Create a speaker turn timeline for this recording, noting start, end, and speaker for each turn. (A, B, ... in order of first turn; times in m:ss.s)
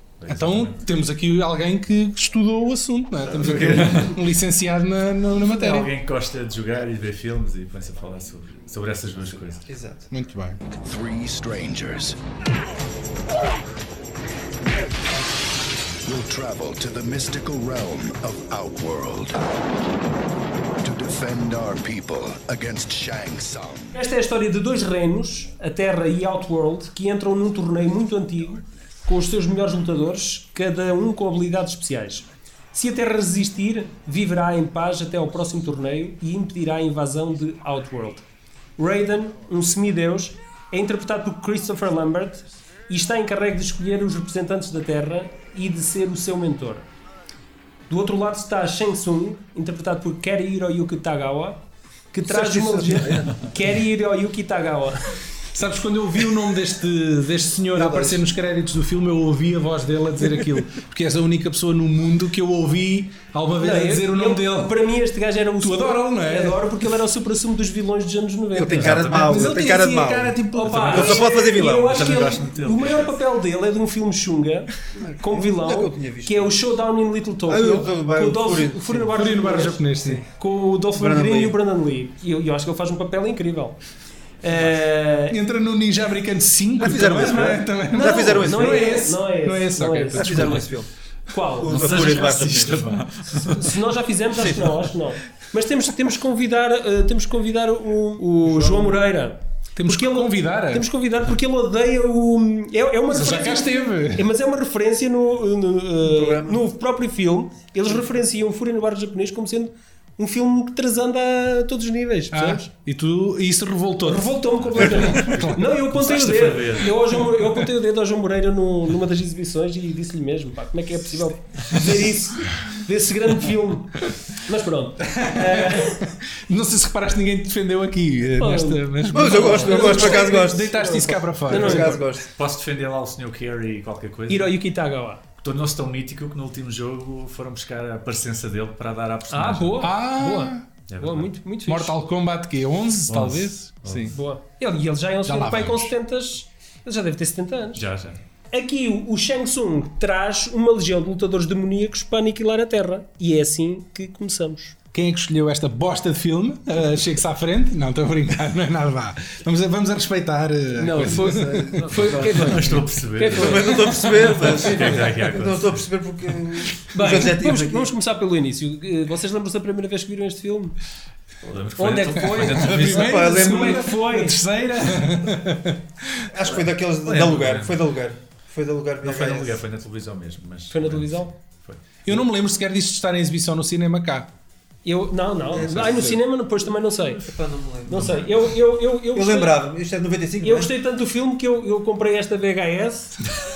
0:00.2-0:00.9 A
0:00.3-0:05.9 B
0:03.3-0:04.2 A
0:05.4-0:09.7 A
0:09.6-0:10.1 C
0:10.1-0:10.6 B
0:10.8-0:12.2 D
0:16.0-0:19.5 D
0:20.8-0:24.0 D
0:23.9-0:38.2 E
0:38.8-0:46.8 E
0:47.9-0:51.6 E
0:52.1-0:55.1 E
0:52.2-0:53.4 C
0:55.5-1:04.7 B
0:57.7-0:58.3 C
1:03.6-1:09.2 E
1:05.6-1:06.6 B
1:08.5-1:12.1 C
1:08.7-1:09.5 A
1:09.1-1:11.2 B
1:10.5-1:23.8 E
1:10.6-1:13.2 A
1:15.0-1:16.6 C
1:17.4-1:19.3 C
1:19.1-1:20.2 B
1:20.0-1:20.2 C
1:20.9-1:21.6 C
1:24.4-1:25.4 E
1:25.3-1:30.7 B
1:26.8-1:29.1 C
1:28.0-1:30.6 E
1:30.1-1:30.9 C
1:31.3-1:32.0 E
1:31.6-1:32.9 C
1:31.6-1:33.8 A
1:33.3-1:52.7 E
1:34.3-1:34.9 C
1:38.4-1:39.0 C
1:39.8-1:40.8 B
1:43.1-1:44.2 B
1:46.0-1:46.7 C
1:52.3-1:55.6 B
1:54.0-2:06.0 E
1:55.7-1:57.2 A
2:05.1-2:12.0 B
2:08.3-2:12.1 E
2:09.1-2:12.3 C
2:12.3-2:14.6 A
2:14.3-2:15.2 E
2:15.4-2:19.9 A
2:19.3-2:22.1 E
2:19.8-2:20.6 B
2:20.9-2:21.4 A
2:21.6-2:24.1 B
2:23.1-2:24.2 A
2:24.1-2:27.8 E
2:25.2-2:25.9 B
2:27.7-2:28.2 A
2:28.5-2:34.7 E
2:34.9-2:41.8 B
2:40.7-2:44.1 E
2:41.2-2:42.2 C
2:41.8-2:45.8 A
2:43.3-2:47.9 C
2:46.9-2:50.7 E
2:51.4-2:53.3 A
2:51.8-2:54.4 E
2:52.6-2:56.2 B
2:52.6-2:53.9 C
2:56.3-2:59.6 C
2:57.0-2:57.8 A
2:59.0-3:01.8 A
3:00.7-3:01.3 E
3:02.0-3:04.3 B
3:04.8-3:07.2 E
3:05.5-3:06.2 C
3:05.6-3:06.2 B
3:07.0-3:08.5 C
3:07.9-3:09.6 E
3:09.0-3:10.7 C
3:10.4-3:13.1 E